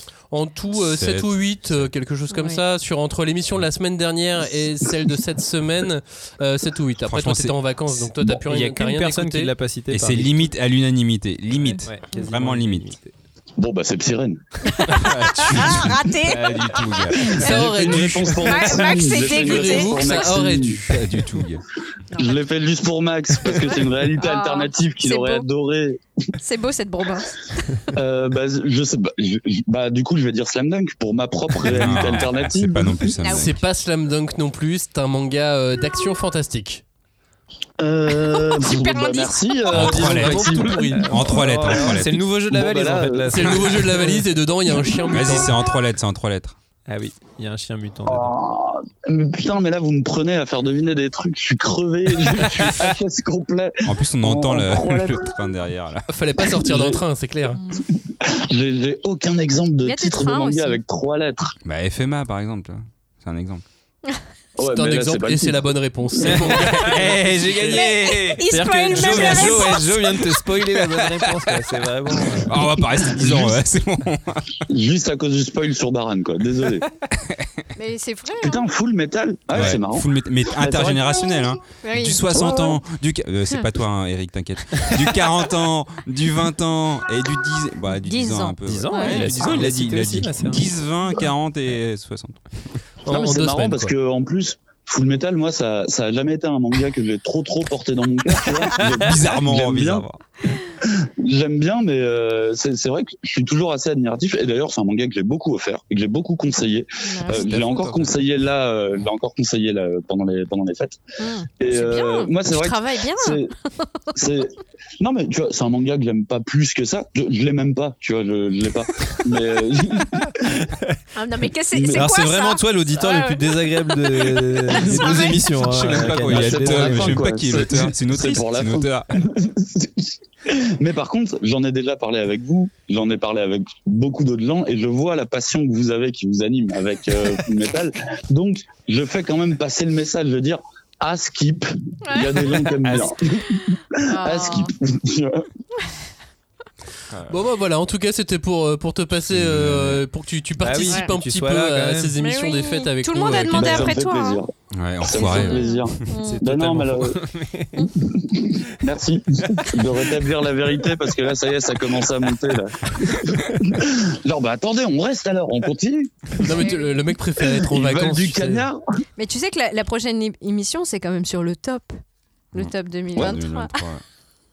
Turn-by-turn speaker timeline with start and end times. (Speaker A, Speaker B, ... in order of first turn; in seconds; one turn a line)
Speaker A: 0.3-9.5
Speaker B: 0.7-1.9
Speaker C: 2.3-2.6
Speaker B: 7.1-7.7
Speaker D: 8.2-10.5
Speaker B: 9.9-12.9
Speaker D: 11.5-13.1
Speaker E: 13.6-14.4
Speaker C: 14.8-17.6
Speaker B: 15.0-18.1
Speaker E: 17.3-20.8
Speaker A: 17.3-21.1
Speaker C: 18.3-20.3
Speaker B: 20.9-21.6
Speaker C: 22.1-22.4
Speaker E: 22.2-26.0
Speaker C: 23.5-25.5
Speaker C: 26.4-27.3
Speaker E: 27.9-33.1
Speaker B: 31.6-33.6
Speaker C: 33.2-33.5
Speaker A: 33.3-36.8
Speaker E: 37.8-41.0
Speaker C: 38.1-40.1
Speaker A: 39.7-41.3
Speaker B: 39.7-40.4
Speaker D: 40.9-44.2
Speaker B: 41.0-42.2
Speaker E: 41.5-43.4
Speaker A: 43.3-45.5
Speaker B: 45.1-46.6
Speaker D: 46.9-48.3
Speaker E: 48.1-55.3
Speaker B: 53.9-56.1
Speaker A: 56.1-57.6
Speaker E: 56.4-57.0
Speaker E: 58.0-61.5
Speaker C: 59.8-60.8
Speaker B: 61.6-63.6
Speaker E: 64.6-65.7
Speaker A: 64.7-67.1
Speaker D: 66.2-73.4
Speaker B: 67.0-67.9
Speaker C: 67.7-70.0
Speaker B: 68.9-70.3
Speaker B: 72.3-74.6
Speaker E: 73.2-73.5
Speaker E: 74.7-76.9
Speaker C: 77.8-78.6
Speaker E: 78.4-81.5
Speaker B: 79.5-92.4
Speaker C: 81.8-82.7
Speaker E: 82.2-82.8
Speaker C: 88.0-89.4
Speaker D: 88.7-90.7
Speaker A: 93.0-93.9
Speaker E: 93.0-100.0
Speaker B: 98.8-100.0
Speaker D: 98.8-100.2
Speaker E: 100.8-111.0
Speaker C: 107.0-108.0
Speaker B: 107.4-107.9
Speaker C: 111.2-113.8
Speaker E: 111.6-113.5
Speaker E: 114.1-120.3
Speaker D: 120.6-121.0
Speaker C: 121.1-125.4
Speaker E: 121.7-122.2
Speaker D: 121.9-127.9
Speaker B: 124.8-129.1
Speaker E: 126.1-145.5
Speaker C: 142.0-144.7
Speaker D: 142.8-143.1
Speaker B: 147.1-147.4
Speaker A: 147.3-153.9
Speaker B: 149.3-150.0
Speaker D: 150.6-152.1
Speaker C: 152.2-154.4
Speaker E: 153.5-157.2
Speaker B: 154.7-155.7
Speaker C: 155.1-156.4
Speaker D: 156.2-157.9
Speaker E: 158.0-166.1
Speaker A: 166.4-168.7
Speaker C: 166.5-166.9
Speaker E: 167.4-168.8
Speaker C: 169.2-172.0
Speaker C: 172.5-173.8
Speaker B: 172.5-174.0
Speaker E: 173.1-173.4